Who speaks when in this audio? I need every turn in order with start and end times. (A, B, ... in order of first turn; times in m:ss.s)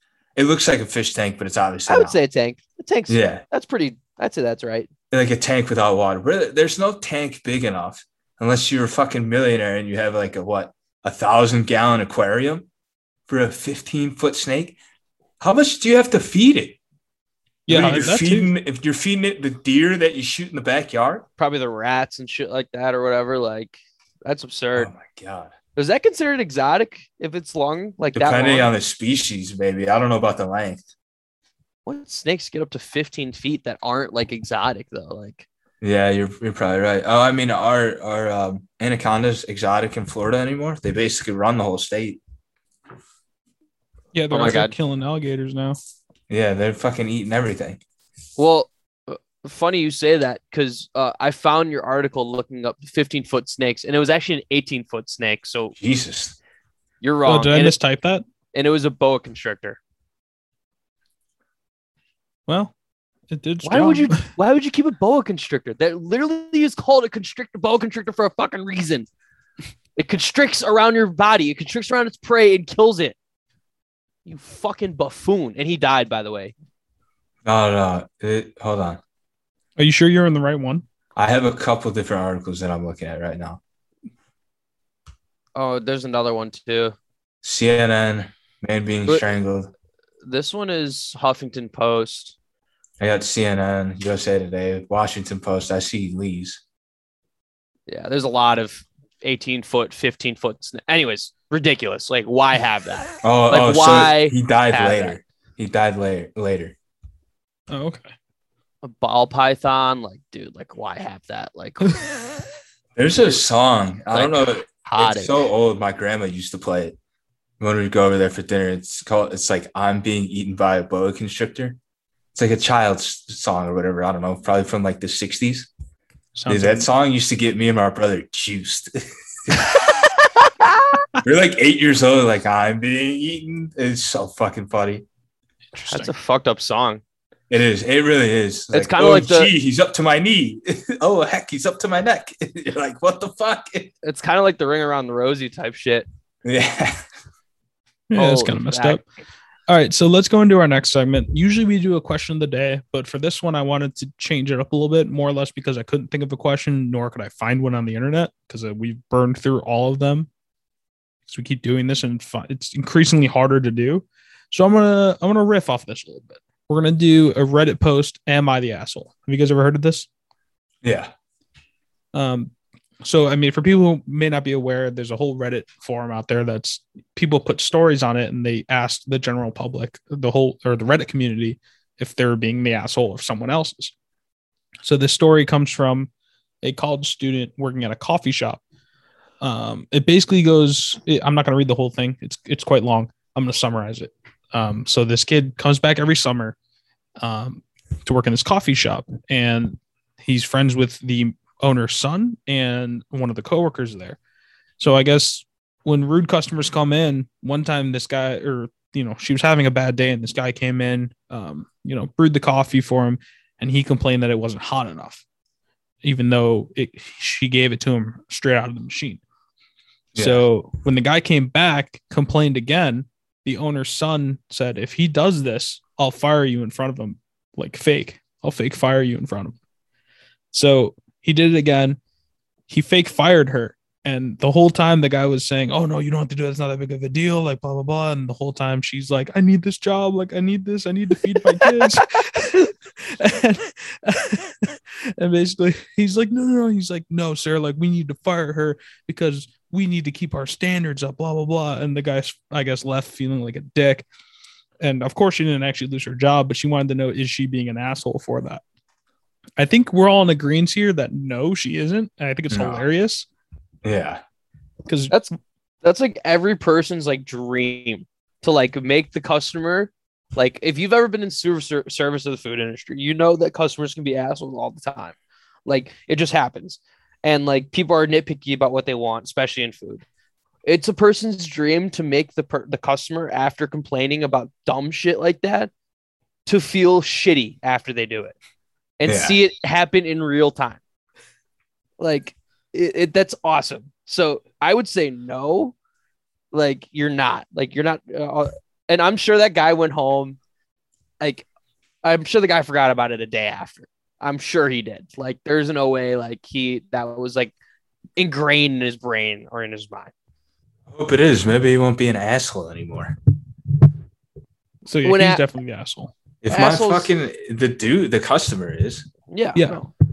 0:00.4-0:02.2 A
0:01.9-0:04.9 B
0:03.1-0:03.4 A
0:05.1-0:12.7 A
0:13.3-0:14.8 A
0:15.4-0:16.8 A
0:17.7-0:18.5 C
0:17.7-0:21.3 A
0:17.7-0:18.0 B
0:21.4-0:24.9 B
0:24.7-0:25.5 A
0:25.8-0:28.7 B
0:28.1-0:30.8 A
0:31.8-0:35.4 B
0:35.8-0:42.2 A
0:44.1-0:45.8 C
0:44.3-0:44.7 B
0:46.3-0:47.8 A
0:48.4-0:55.7 B
0:55.8-0:56.4 A
0:57.0-0:57.7 B
0:57.2-0:58.2 C
0:58.5-0:59.8 B
1:02.5-1:02.7 C
1:03.3-1:04.3 C
1:03.6-1:09.1 B
1:10.0-1:13.1 B
1:14.2-1:16.5 B
1:17.4-1:19.0 A
1:19.8-1:20.8 C
1:21.2-1:23.6 A
1:25.6-1:26.9 B
1:27.4-1:29.7 A
1:30.2-1:32.3 B
1:33.0-1:36.6 A
1:37.9-1:45.2 B
1:43.2-1:46.7 A
1:47.7-1:48.0 C
1:48.8-1:52.0 B
1:53.0-1:57.0 A
1:54.1-1:55.4 B
1:57.6-2:01.8 A
2:02.3-2:05.7 A
2:06.3-2:06.9 C
2:06.5-2:09.7 A
2:10.6-2:11.0 B
2:11.2-2:15.0 A
2:15.7-2:16.1 C
2:15.9-2:17.0 B
2:17.5-2:23.9 A
2:18.7-2:19.5 B
2:24.0-2:26.0 B
2:26.4-2:27.0 A
2:28.1-2:29.0 C
2:28.1-2:29.0 B
2:29.7-2:40.3 C
2:41.3-2:50.1 C
2:50.8-2:51.1 A
2:52.1-3:03.9 C
3:04.8-3:06.1 C
3:06.6-3:08.6 C
3:09.4-3:16.6 C
3:17.2-3:24.2 C
3:24.8-3:35.2 C
3:36.0-3:39.2 C
3:40.1-3:40.4 A
3:40.2-3:49.6 C
3:50.5-3:52.0 C
3:52.7-4:14.0 C
4:14.8-4:18.6 C
4:19.6-4:23.3 C
4:22.5-4:22.8 A
4:23.8-4:24.2 A
4:24.8-4:25.1 C
4:25.1-4:40.0 B
4:40.6-4:45.7 B
4:46.4-4:48.4 B
4:49.0-4:50.8 B
4:49.0-4:49.4 A
4:52.0-4:55.7 B
4:56.5-5:00.4 B
5:02.0-5:07.5 B
5:08.2-5:10.1 B
5:10.9-5:13.2 A
5:14.8-5:16.1 C
5:15.0-5:15.4 B
5:16.4-5:19.1 A
5:16.5-5:17.1 B
5:19.3-5:19.9 B
5:19.5-5:19.8 C